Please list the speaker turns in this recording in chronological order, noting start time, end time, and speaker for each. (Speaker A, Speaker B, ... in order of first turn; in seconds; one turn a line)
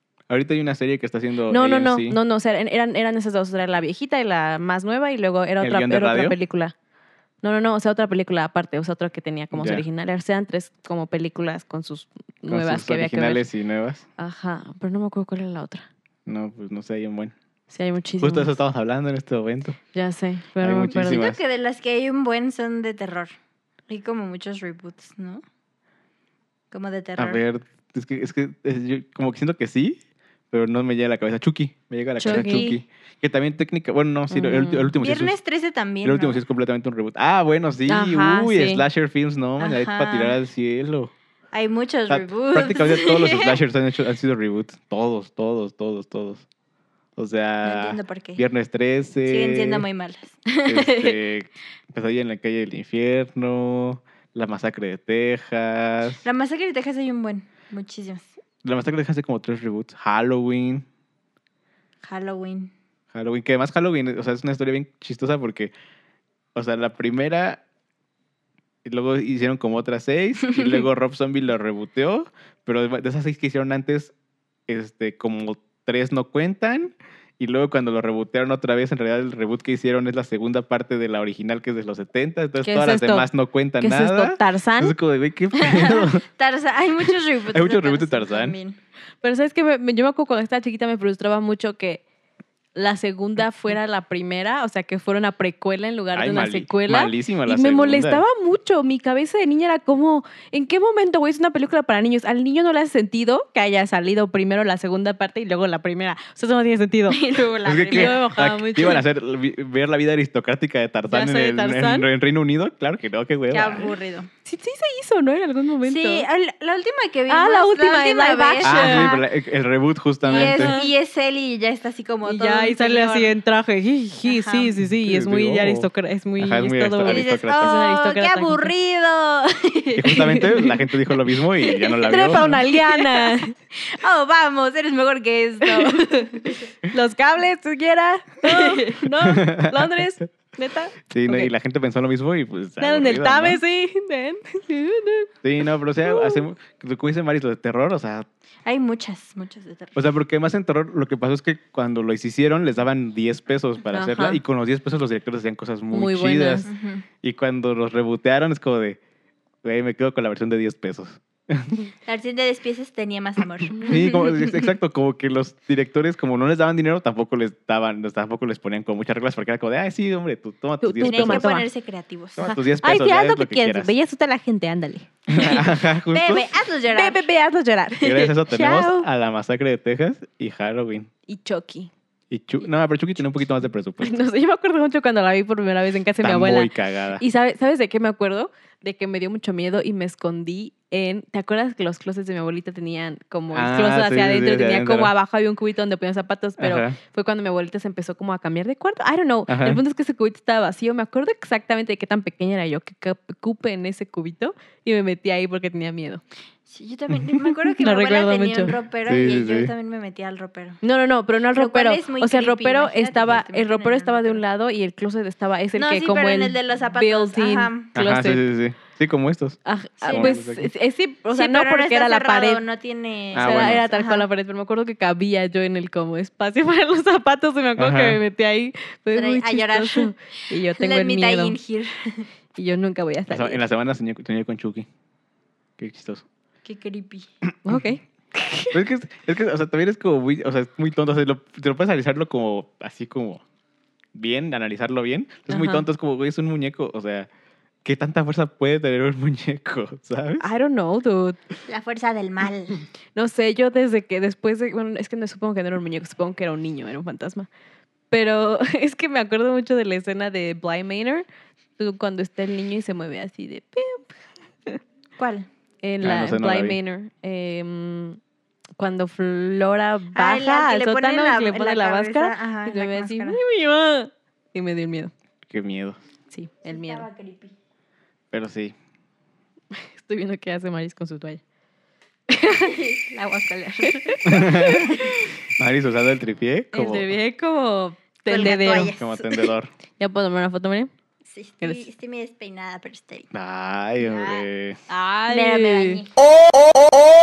Speaker A: 0.3-2.2
Speaker B: 1.5-6.7
Speaker A: 5.6-6.4
Speaker B: 7.4-13.4
Speaker A: 9.5-9.8
Speaker A: 12.5-14.0
Speaker B: 14.2-15.8
Speaker A: 16.2-17.3
Speaker B: 17.7-18.5
Speaker A: 18.2-19.8
Speaker B: 19.9-21.3
Speaker A: 20.6-21.4
Speaker C: 20.9-23.3
Speaker C: 23.9-25.4
Speaker C: 26.7-27.4
Speaker A: 27.2-30.0
Speaker A: 30.5-35.4
Speaker B: 32.2-32.7
Speaker C: 32.2-32.8
Speaker B: 34.3-34.9
Speaker C: 35.0-36.4
Speaker A: 36.0-41.1
Speaker B: 37.9-38.8
Speaker C: 39.6-40.4
Speaker C: 41.5-43.6
Speaker A: 42.1-46.4
Speaker A: 47.2-49.9
Speaker C: 47.6-48.4
Speaker C: 49.2-51.2
Speaker A: 50.6-56.2
Speaker C: 56.2-58.3
Speaker A: 58.6-60.8
Speaker C: 62.0-62.7
Speaker A: 63.1-65.7
Speaker A: 66.5-67.6
Speaker A: 68.8-74.1
Speaker A: 74.7-86.2
Speaker B: 82.6-85.0
Speaker C: 85.5-88.8
Speaker A: 87.5-88.5
Speaker B: 89.2-92.0
Speaker B: 92.8-107.2
Speaker A: 96.1-98.2
Speaker C: 107.1-108.2
Speaker A: 107.6-113.9
Speaker B: 107.9-109.0
Speaker B: 111.1-112.1
Speaker C: 113.5-114.3
Speaker B: 114.4-116.2
Speaker C: 115.8-119.2
Speaker B: 117.3-119.2
Speaker A: 118.6-120.7
Speaker C: 120.3-123.3
Speaker B: 120.3-120.9
Speaker B: 122.2-128.7
Speaker C: 124.2-124.7
Speaker A: 124.9-127.8
Speaker C: 127.0-130.7
Speaker A: 129.9-132.6
Speaker B: 130.1-130.7
Speaker C: 131.6-136.7
Speaker B: 132.0-133.5
Speaker B: 135.6-141.5
Speaker C: 138.4-139.0
Speaker A: 139.2-139.9
Speaker A: 141.1-143.6
Speaker B: 142.8-145.3
Speaker A: 145.4-148.3
Speaker B: 146.0-146.4
Speaker C: 148.6-149.9
Speaker A: 149.9-156.7
Speaker B: 153.9-154.4
Speaker B: 155.9-156.7
Speaker C: 156.6-157.0
Speaker A: 157.2-159.0
Speaker A: 159.6-161.9
Speaker C: 162.1-164.7
Speaker A: 163.8-171.5
Speaker B: 170.8-171.7
Speaker C: 171.0-172.5
Speaker A: 172.4-173.9
Speaker B: 172.4-175.7
Speaker A: 175.3-176.5
Speaker C: 176.1-177.2
Speaker B: 176.9-179.1
Speaker A: 178.0-181.1
Speaker B: 181.3-181.9
Speaker A: 182.3-184.2
Speaker B: 184.0-206.2
Speaker A: 186.2-187.2
Speaker A: 193.5-195.1
Speaker A: 196.6-197.0
Speaker A: 199.5-199.8
Speaker C: 206.7-210.8
Speaker B: 207.8-208.7
Speaker A: 209.1-209.7
Speaker B: 210.8-218.4
Speaker C: 211.5-214.4
Speaker C: 215.8-217.9
Speaker A: 217.9-220.7
Speaker B: 219.6-222.6
Speaker C: 220.0-220.4
Speaker C: 221.3-224.3
Speaker A: 223.3-223.8
Speaker B: 223.3-231.6
Speaker A: 227.8-228.2
Speaker C: 229.1-230.1
Speaker C: 230.7-232.3
Speaker B: 232.6-233.6
Speaker A: 233.3-234.9
Speaker A: 235.8-236.2
Speaker C: 236.6-237.3
Speaker B: 237.6-238.8
Speaker A: 238.7-243.4
Speaker A: 244.1-247.3
Speaker B: 245.5-245.8
Speaker A: 247.8-250.5
Speaker B: 250.4-251.4
Speaker C: 251.7-252.8
Speaker B: 253.1-257.5
Speaker B: 258.1-261.2
Speaker B: 261.8-264.1
Speaker C: 265.2-265.5
Speaker B: 265.8-268.2
Speaker A: 266.0-266.8
Speaker B: 268.8-275.1
Speaker C: 270.1-273.4
Speaker A: 275.5-276.0
Speaker B: 276.3-277.1
Speaker C: 276.6-277.5
Speaker A: 278.3-278.7
Speaker B: 279.7-281.4
Speaker B: 282.3-282.8
Speaker C: 282.5-285.3
Speaker B: 283.9-285.0
Speaker A: 284.2-285.0
Speaker A: 285.6-287.1
Speaker B: 286.7-288.9
Speaker C: 288.3-289.5
Speaker A: 288.9-289.7
Speaker B: 290.0-290.9
Speaker C: 291.2-293.3
Speaker A: 293.3-294.8
Speaker C: 294.0-294.5
Speaker B: 294.9-296.0
Speaker C: 295.3-296.2